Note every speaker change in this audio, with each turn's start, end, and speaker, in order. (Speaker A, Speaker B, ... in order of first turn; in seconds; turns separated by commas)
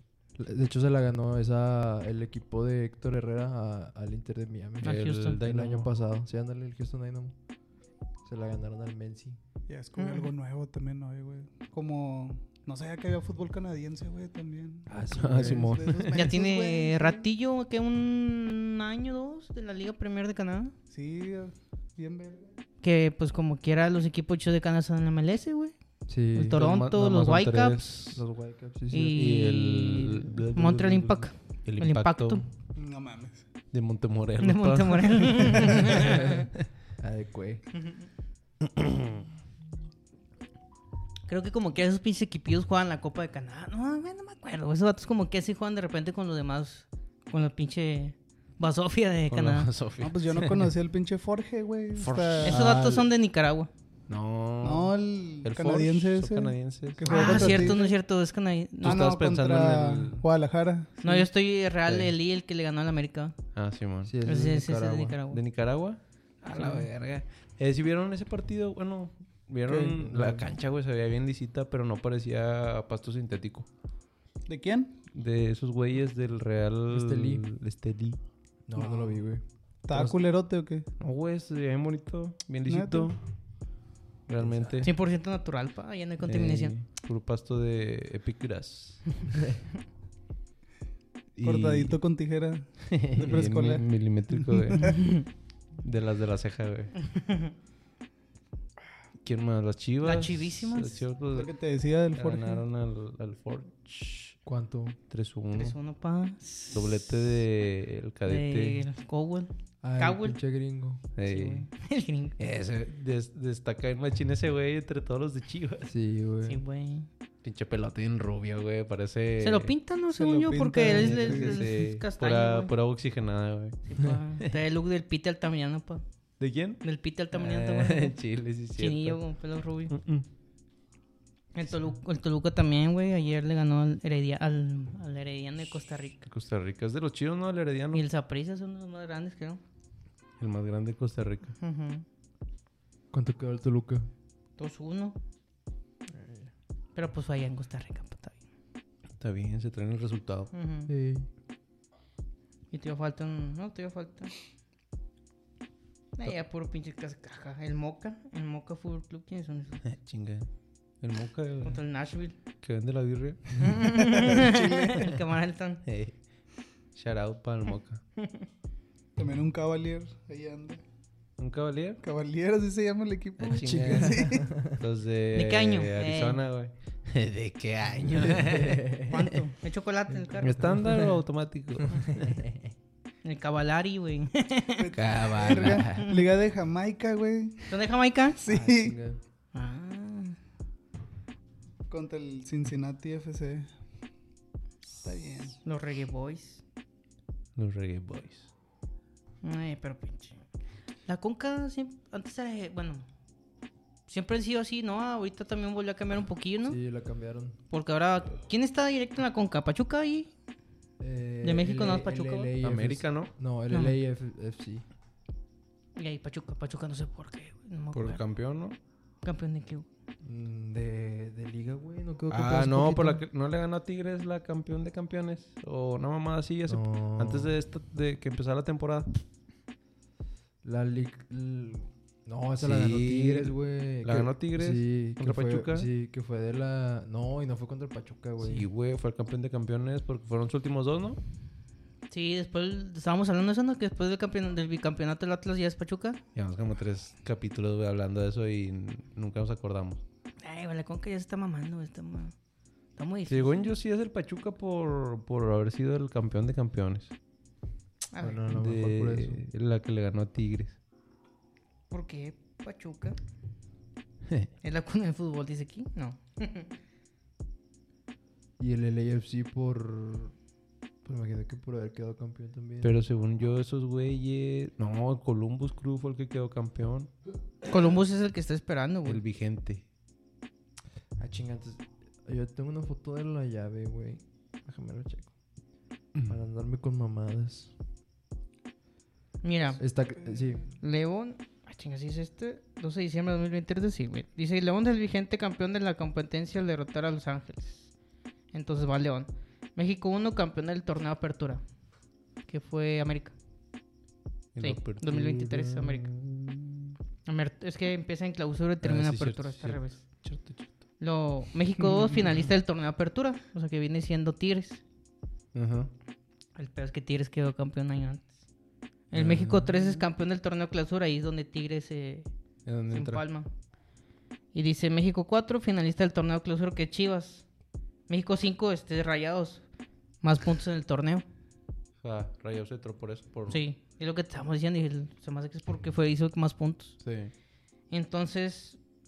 Speaker A: 0.4-7.3, Speaker B: 4.8-5.4, Speaker C: 4.8-5.9, Speaker A: 8.2-9.4, Speaker D: 9.7-17.2, Speaker B: 9.9-10.3, Speaker A: 14.8-15.8, Speaker C: 15.1-16.2, Speaker B: 16.1-20.7, Speaker D: 20.9-22.5, Speaker B: 22.8-25.7, Speaker A: 26.1-26.6, Speaker B: 26.3-27.9, Speaker C: 26.5-28.2, Speaker A: 28.1-29.1, Speaker B: 28.9-32.4, Speaker C: 29.1-32.4, Speaker D: 32.8-33.4, Speaker C: 33.7-36.0, Speaker B: 34.4-36.5, Speaker A: 36.0-36.3, Speaker A: 37.0-37.7, Speaker C: 38.6-39.2, Speaker B: 41.3-49.7, Speaker C: 49.3-50.6, Speaker D: 50.0-53.1, Speaker C: 51.9-52.6, Speaker B: 52.4-53.7, Speaker C: 54.1-57.8, Speaker D: 54.6-58.0, Speaker B: 57.0-59.0, Speaker D: 58.8-61.3, Speaker C: 58.8-60.2, Speaker B: 61.0-63.3, Speaker C: 61.9-62.1, Speaker C: 63.5-64.1, Speaker A: 64.0-65.2, Speaker B: 64.2-65.4, Speaker C: 65.3-73.7, Speaker B: 66.5-66.8, Speaker D: 69.7-70.0, Speaker A: 70.0-70.5, Speaker D: 74.5-74.9, Speaker C: 75.1-78.2, Speaker A: 76.9-77.4, Speaker A: 78.7-80.2, Speaker D: 78.8-79.2, Speaker D: 79.9-80.9, Speaker C: 81.0-83.2, Speaker D: 82.7-83.1, Speaker C: 84.3-84.9, Speaker A: 84.4-84.9, Speaker B: 84.8-86.7, Speaker C: 86.2-89.2, Speaker C: 91.3-92.0, Speaker D: 91.4-94.9, Speaker C: 92.8-95.2, Speaker C: 95.8-97.0, Speaker B: 97.2-97.5, Speaker C: 99.2-101.5, Speaker B: 100.0-101.0, Speaker D: 101.3-102.6, Speaker C: 102.1-104.3, Speaker A: 104.4-105.0, Speaker C: 105.1-105.8, Speaker B: 105.5-107.1, Speaker C: 106.7-108.8, Speaker B: 108.2-110.3, Speaker A: 109.8-111.1, Speaker C: 111.2-111.7, Speaker B: 111.2-112.4, Speaker C: 112.4-115.9, Speaker A: 115.8-116.6, Speaker B: 116.5-117.1, Speaker C: 117.4-123.8, Speaker B: 119.4-122.7, Speaker D: 120.1-121.6, Speaker B: 123.8-126.0, Speaker C: 126.4-129.2, Speaker B: 126.8-128.1, Speaker B: 128.8-129.9, Speaker C: 129.9-130.2, Speaker B: 131.5-136.2, Speaker C: 136.2-138.0, Speaker B: 137.9-139.6, Speaker C: 140.4-141.6, Speaker B: 141.6-142.0, Speaker A: 143.1-144.1, Speaker B: 144.6-145.2, Speaker A: 146.1-146.5, Speaker B: 146.9-148.4, Speaker C: 149.2-150.5, Speaker B: 150.5-150.9, Speaker A: 150.9-151.3, Speaker B: 152.7-154.3, Speaker B: 156.2-159.8, Speaker C: 159.8-160.5, Speaker C: 161.0-161.8, Speaker B: 161.6-162.3, Speaker C: 162.6-163.7, Speaker B: 163.6-165.8, Speaker D: 164.1-165.1, Speaker C: 165.8-166.2, Speaker C: 166.9-168.0, Speaker B: 168.2-168.4, Speaker D: 169.2-170.8, Speaker C: 171.4-172.0, Speaker D: 172.0-174.4, Speaker C: 173.4-179.0, Speaker A: 173.6-174.8, Speaker B: 175.3-176.4, Speaker A: 178.3-179.2, Speaker B: 179.0-180.7, Speaker C: 180.4-182.4, Speaker A: 180.5-181.2, Speaker A: 182.1-182.7, Speaker B: 183.2-184.9, Speaker D: 184.8-187.8, Speaker C: 184.9-186.1, Speaker B: 187.7-188.4, Speaker D: 188.4-188.9, Speaker A: 188.4-189.2, Speaker B: 189.5-190.4, Speaker D: 191.9-193.7, Speaker D: 194.9-195.6, Speaker B: 195.6-196.6, Speaker C: 197.6-198.5, Speaker B: 199.4-200.4, Speaker B: 201.1-203.0, Speaker B: 204.1-206.8, Speaker A: 206.6-207.6, Speaker B: 207.7-210.3, Speaker A: 211.0-214.8, Speaker B: 211.4-212.5, Speaker C: 212.6-213.3, Speaker B: 213.7-213.9, Speaker B: 215.9-218.2, Speaker C: 217.9-218.8, Speaker B: 219.2-219.9, Speaker A: 220.2-223.2, Speaker C: 222.3-229.2, Speaker A: 226.7-227.5, Speaker A: 230.6-238.7, Speaker C: 232.6-235.9, Speaker C: 238.4-241.2, Speaker B: 242.1-246.2, Speaker C: 246.3-250.0, Speaker B: 250.4-252.3, Speaker B: 253.0-253.7, Speaker C: 253.3-257.1, Speaker B: 258.1-258.4, Speaker A: 258.2-259.4, Speaker C: 258.5-260.8, Speaker B: 261.9-263.2, Speaker B: 264.6-266.7, Speaker A: 268.6-270.3, Speaker A: 271.0-273.0, Speaker C: 272.8-277.1, Speaker B: 277.7-279.2, Speaker C: 279.1-279.8, Speaker A: 281.2-285.3, Speaker A: 286.3-287.7, Speaker B: 289.4-289.8, Speaker A: 289.8-290.7, Speaker B: 290.8-297.9, Speaker B: 298.5-301.6, Speaker B: 302.5-303.3, Speaker C: 304.5-307.0, Speaker B: 304.6-306.1, Speaker B: 307.2-310.0, Speaker C: 308.8-310.7, Speaker B: 311.0-314.8, Speaker C: 315.5-315.9, Speaker B: 316.6-318.3, Speaker B: 319.1-322.3, Speaker C: 319.1-320.0, Speaker C: 322.6-323.2, Speaker B: 322.9-323.5, Speaker B: 324.5-327.4, Speaker B: 328.1-329.6, Speaker B: 330.2-331.2, Speaker C: 332.0-333.6, Speaker B: 333.5-337.0, Speaker C: 337.0-337.3, Speaker B: 337.9-338.8